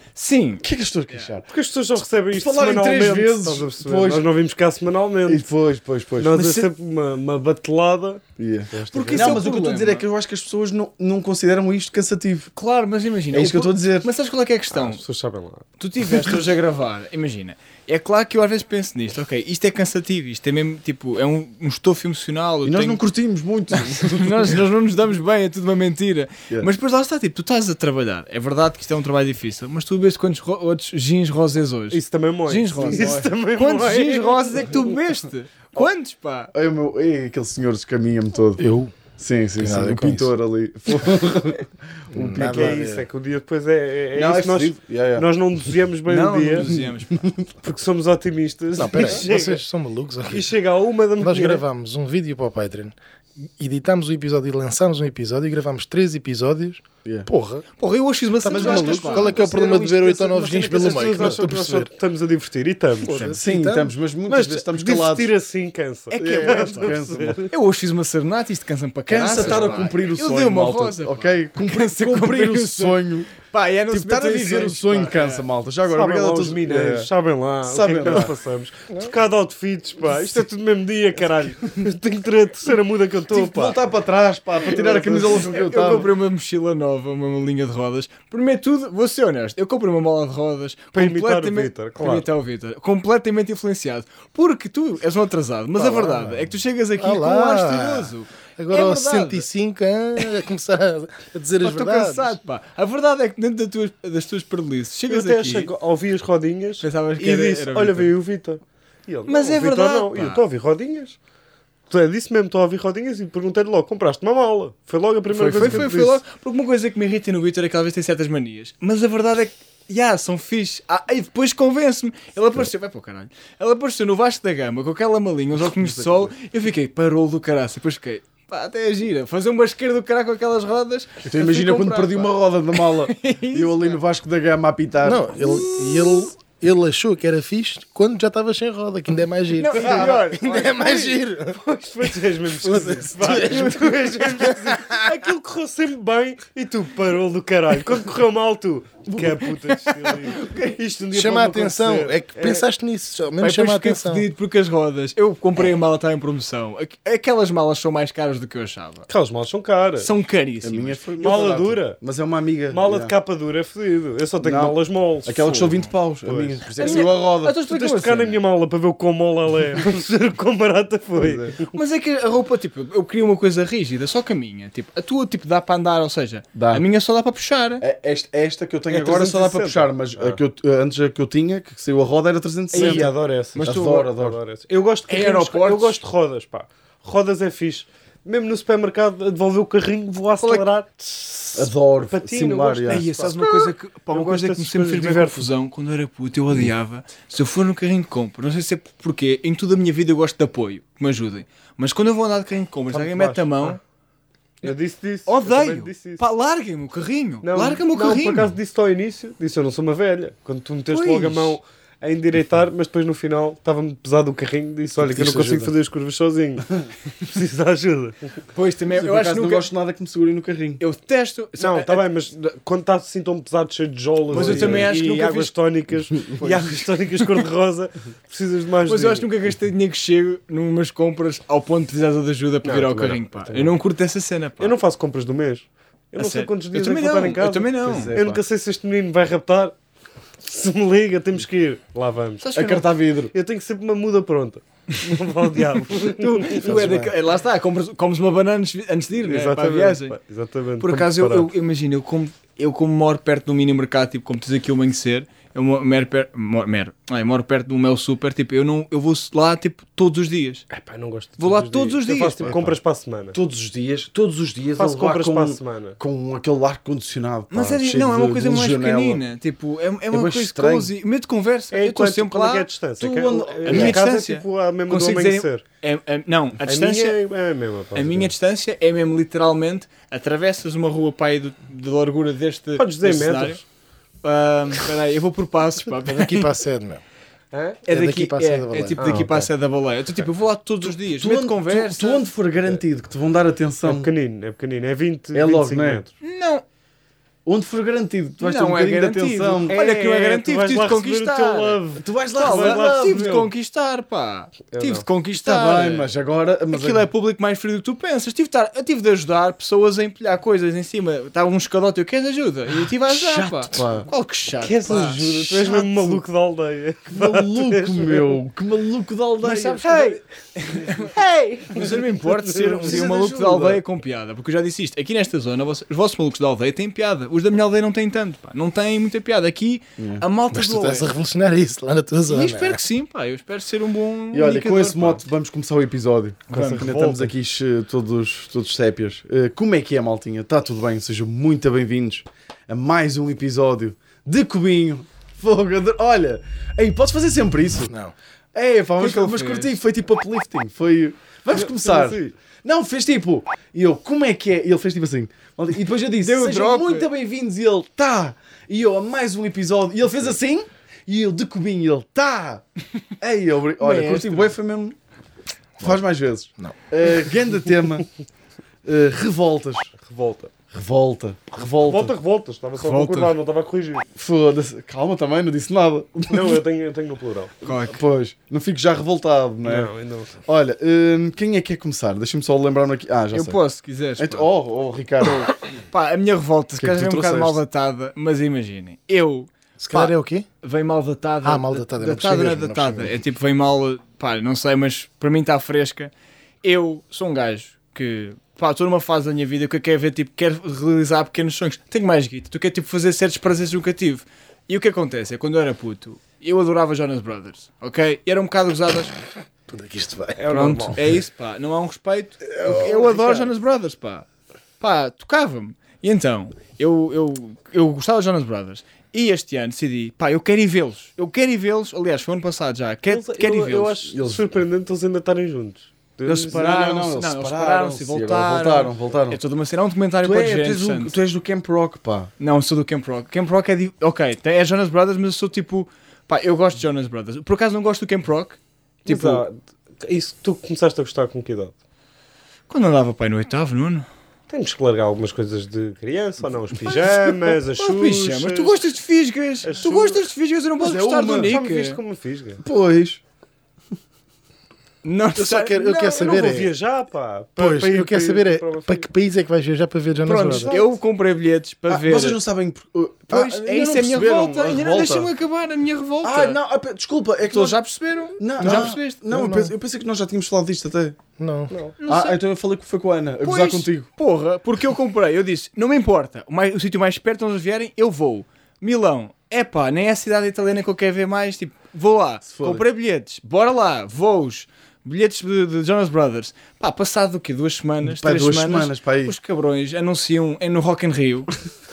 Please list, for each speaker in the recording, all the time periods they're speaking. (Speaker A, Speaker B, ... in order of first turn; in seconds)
Speaker A: 0.1-1.3, 8.9-10.1, 12.5-15.0, 15.8-23.0, 23.7-36.5, 46.1-47.3, 57.8-59.4, 63.1-63.4, 66.1-67.0, 67.5-75.4, 85.1-99.5, 101.6-105.7, 106.8-108.1, 109.3-110.4, 115.3-134.0, 139.6-140.7, 143.3-144.0, 149.6-150.8, 153.4-159.1, 160.0-161.0, 165.4-165.9, 166.8-168.4, 171.7-177.8, 182.7-184.1, 185.1-186.0, 190.4-190.6, 192.9-203.8, 205.3-208.5, 210.9-211.6, 218.5-219.7, 220.8-222.0, 224.3-225.6, 226.3-227.4, 228.8-234.8, 236.2-238.2, 242.4-242.9, 246.4-250.2, 250.8-260.7, 261.4-262.5, 267.5-272.7, 273.6-277.2, 277.9-283.6, 284.2-286.5, 287.9-292.3, 296.2-296.6, 298.4-301.8, 302.4-306.1, 306.7-315.7, 319.4-331.1, 332.3-335.2, 336.5-336.9, 349.0-349.7, 356.2-357.1, 363.8-364.5, 372.8-373.4, 377.6-378.0, 383.3-384.5, 385.3-396.1, 396.6-409.1, 410.5-414.2, 414.8-424.1, 426.5-431.1, 432.4-439.4, 442.7-444.1, 446.8-452.0, 455.0-456.4, 460.2-462.4, 463.3-466.6, 467.4-469.2, 472.0-472.4, 473.4-491.5
Speaker B: 0.6-1.5, 2.3-4.2, 5.3-6.7, 8.4-12.5, 13.3-14.1, 22.6-24.6, 36.5-38.6, 39.2-42.9, 44.1-45.2, 46.7-47.4, 58.5-61.4, 63.3-65.3, 66.2-67.4, 69.1-73.3, 73.9-77.1, 77.6-78.3, 83.3-86.1, 125.8-126.3, 131.2-135.7, 160.6-163.1, 164.4-167.6, 171.2-171.5, 176.5-176.8, 177.8-184.4, 191.5-193.1, 215.0-215.7, 218.9-220.8, 224.3-225.0, 237.8-238.4, 242.6-243.3, 246.6-247.2, 262.4-262.8, 263.3-269.2, 270.1-270.9, 273.0-274.0, 290.8-294.1, 295.3-296.0, 297.4-299.8, 302.0-303.5, 305.4-307.1, 313.1-314.1, 314.9-316.2, 317.1-319.8, 322.8-323.8, 330.0-330.2, 334.3-347.9, 348.5-362.6, 363.2-364.9, 365.8-368.1, 368.8-369.9, 370.7-372.1, 374.1-376.6, 377.7-379.9, 380.4-383.6, 384.2-385.5, 386.8-387.6, 424.1-424.4, 426.2-429.4, 430.2-432.3, 450.8-451.6, 452.6-453.2, 461.9-465.3, 466.2-467.8, 468.4-471.2, 472.1-474.1, 482.4-482.8, 488.0-489.3
Speaker C: 1.5-5.4, 6.2-9.4, 14.7-15.6, 31.9-35.0, 42.4-46.7, 47.6-49.6, 50.3-51.6, 60.7-63.2, 64.3-67.5, 69.4-69.8, 75.9-83.8, 84.7-85.4, 90.9-92.3, 95.8-96.3, 105.1-111.2, 111.9-116.2, 139.8-152.7, 159.1-160.1, 161.2-162.0, 162.7-165.5, 166.2-171.8, 178.9-180.4, 182.7-195.5, 202.9-203.8, 204.6-206.2, 207.4-218.4, 221.6-229.3, 232.6-233.7, 234.6-239.7, 240.4-242.5, 243.3-247.0, 249.2-251.5, 260.7-263.4, 264.8-266.0, 271.7-275.6, 276.7-278.3, 282.8-283.6, 287.5-287.8, 289.0-289.5, 293.8-296.1, 299.7-303.4, 304.7-305.1, 314.6-318.4, 319.8-320.2, 321.8-323.0, 336.5-337.3, 351.5-352.3, 370.0-370.5, 371.8-374.1, 376.3-377.5, 379.6-380.3, 410.4-411.0, 412.6-413.5, 423.1-426.6, 439.1-441.7, 444.5-448.8, 449.6-450.2, 451.4-452.6, 456.1-459.1, 460.6-460.9, 471.7-471.9
Speaker D: 38.6-38.9, 39.6-40.3, 42.1-43.0, 48.7-50.5, 51.2-57.6, 58.4-61.9, 63.0-63.9, 97.0-102.4, 135.0-141.6, 142.4-145.0, 151.1-154.2, 286.0-287.0, 287.9-289.3, 330.5-332.8, 347.9-348.1, 389.8-390.5, 391.4-393.1, 409.7-410.4, 455.4-456.7, 457.6-460.8, 468.6-469.7, 471.4-471.7